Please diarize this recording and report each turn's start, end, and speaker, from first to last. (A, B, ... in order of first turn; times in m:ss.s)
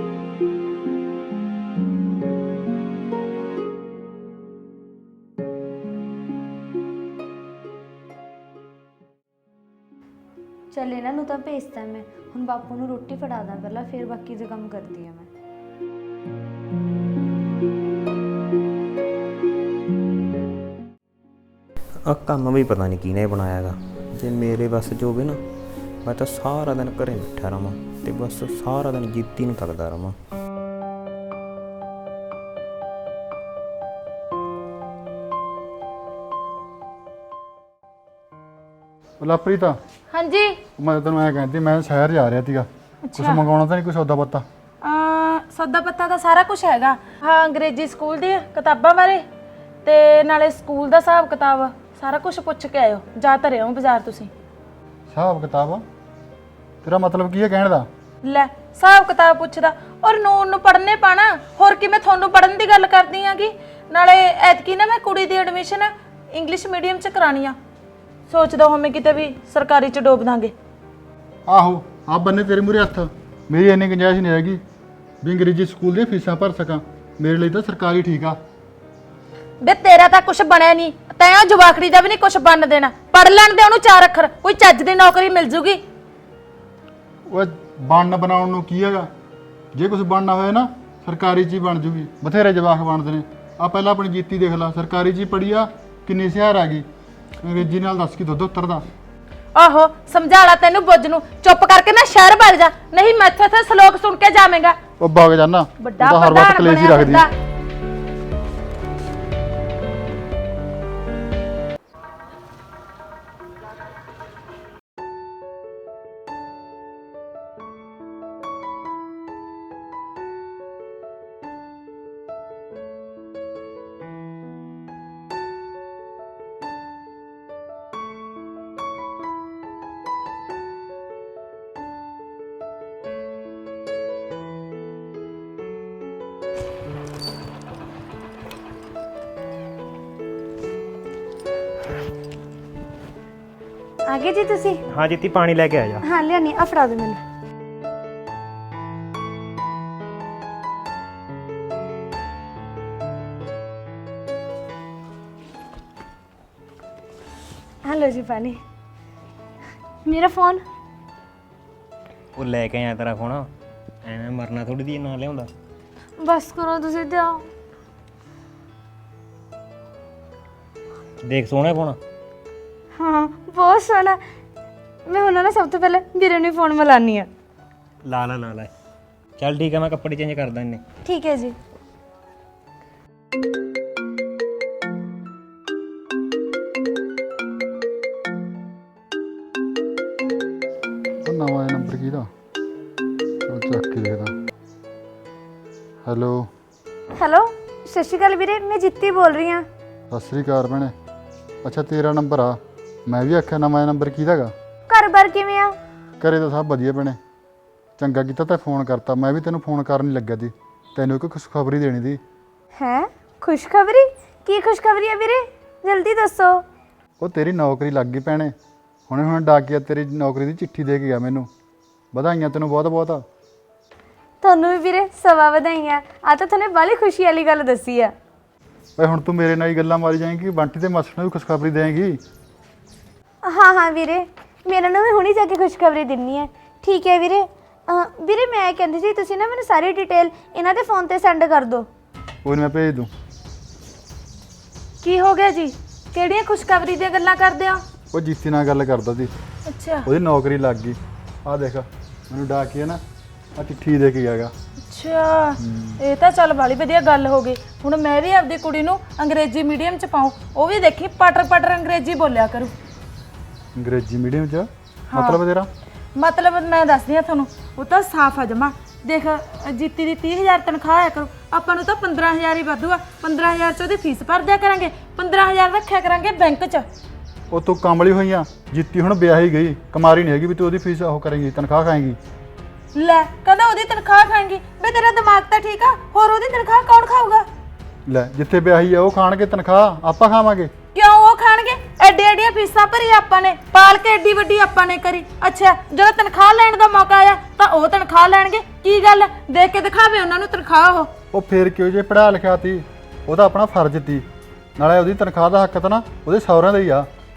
0:10.7-0:15.3 A
0:22.0-0:25.4 B
0:26.0-0:30.2 B
0:39.2-0:39.8 C
0:40.1-0:40.6 D
0:40.8-0:44.4 C
0:43.0-0:43.4 D
0:44.8-0:49.2 D
0:49.8-0:54.3 D
0:55.1-0:55.8 C
0:56.8-0:57.9 C
0:58.2-1:07.6 D
1:08.3-1:10.5 D
1:11.5-1:14.6 C
1:15.2-1:18.4 C
1:19.6-1:25.8 D
1:27.3-1:29.1 C
1:29.7-1:36.8 C
1:37.4-1:38.8 C
1:39.5-1:44.8 D
1:45.0-1:47.3 C
1:45.8-1:47.3 D
2:24.1-2:24.8 A
2:24.9-2:26.0 B
2:26.0-2:27.2 A
2:37.8-2:38.6 A
2:40.0-2:40.6 A
2:42.4-2:43.5 B
2:44.0-2:45.5 B
2:46.2-2:47.5 A
2:51.2-2:52.0 B
2:53.0-2:54.2 A
2:55.1-2:57.3 A
2:58.0-2:58.7 B
2:59.4-3:00.8 B
3:01.0-3:01.6 A
3:11.2-3:12.3 C
3:13.4-3:14.3 C
3:16.0-3:16.5 C
3:17.2-3:19.7 A
3:20.1-3:20.9 C
3:21.6-3:24.5 C
3:24.9-3:25.8 A
3:26.2-3:27.2 C
3:28.0-3:32.2 C
3:32.7-3:36.6 A
3:37.2-3:38.5 C
3:39.1-3:41.5 C
3:42.1-3:43.2 C
3:44.4-3:48.1 A
3:49.0-3:52.2 C
3:53.4-4:01.9 A
4:02.4-4:03.1 C
4:05.0-4:07.8 D
4:08.1-4:09.3 C
4:09.7-4:10.1 D
4:10.0-4:13.0 C
4:13.6-4:14.5 C
4:14.9-4:22.7 D
4:15.6-4:16.0 C
4:23.8-4:25.7 C
4:25.1-4:25.4 D
4:26.2-4:36.9 D
4:37.5-4:42.2 C
4:42.9-4:47.4 D
4:48.1-4:50.7 C
4:50.9-5:01.1 D
5:01.3-5:04.2 C
5:04.8-5:07.1 C